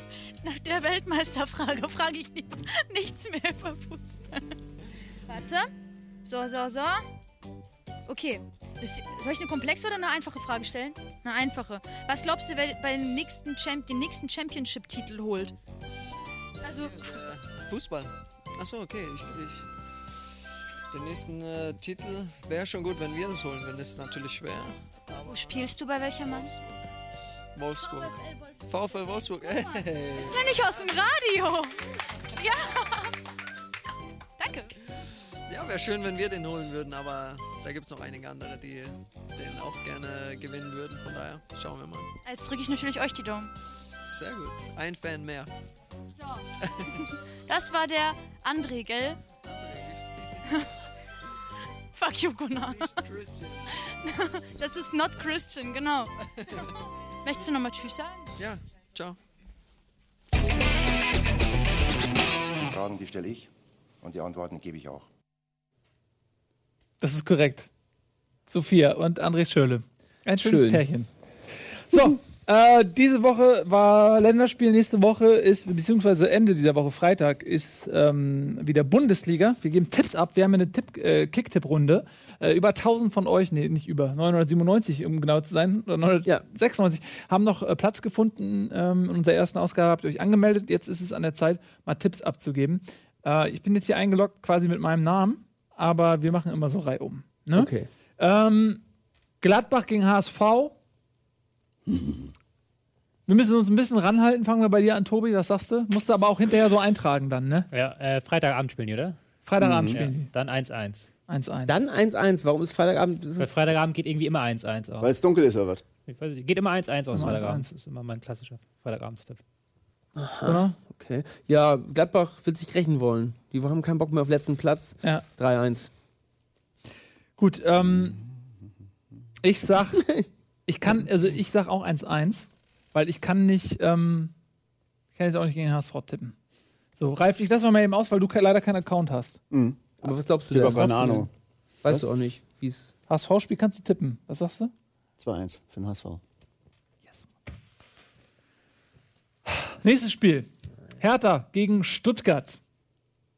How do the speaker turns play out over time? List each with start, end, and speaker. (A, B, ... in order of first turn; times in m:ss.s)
0:00.4-0:04.5 A
0:05.3-0:05.7 A
0:06.2-0:07.0 A
0:08.1-0:15.5 A
0:16.6-0:17.4 A
0:16.8-0:19.7 B
0:20.9-0:25.7 B
0:25.2-0:26.5 A
0:26.3-0:26.8 B
0:27.6-0:31.1 B
0:27.8-0:28.5 A
0:29.5-0:33.1 A
0:34.4-0:34.7 A
0:35.0-0:42.1 B
0:42.2-0:43.5 A
0:44.0-0:45.5 B
0:47.5-0:49.2 A
0:49.4-0:50.5 B
0:51.9-0:53.1 A
0:52.7-0:53.9 B
0:53.7-0:56.7 A
0:57.2-0:58.3 A
0:58.4-0:59.2 B
1:02.5-1:03.5 C
1:04.0-1:05.1 C
1:07.0-1:07.7 D
1:08.5-1:11.1 D
1:10.4-1:10.9 E
1:11.9-1:38.8 D
1:37.5-1:37.9 E
1:39.4-1:40.8 D
1:41.9-1:42.2 F
1:43.3-1:47.7 D
1:47.7-1:49.2 G
1:49.4-1:50.3 D
1:49.6-1:50.0 F
1:49.9-1:51.1 G
1:51.3-1:51.8 D
1:51.7-1:53.6 E
1:53.4-1:55.2 G
1:55.0-1:55.8 F
1:56.1-1:59.4 G
1:57.1-1:57.7 D
2:00.2-2:05.9 E
2:00.5-2:00.8 D
2:07.4-2:08.2 D
2:07.8-2:08.5 F
2:09.4-2:10.1 D
2:10.0-2:10.3 E
2:10.7-2:14.3 D
2:15.2-2:16.4 D
2:17.0-2:19.4 D
2:19.5-2:19.8 F
2:20.0-2:21.3 E
2:20.5-2:21.3 F
2:20.8-2:21.2 D
2:21.8-2:22.9 E
2:23.1-2:24.7 D
2:25.2-2:26.2 F
2:29.5-2:32.6 D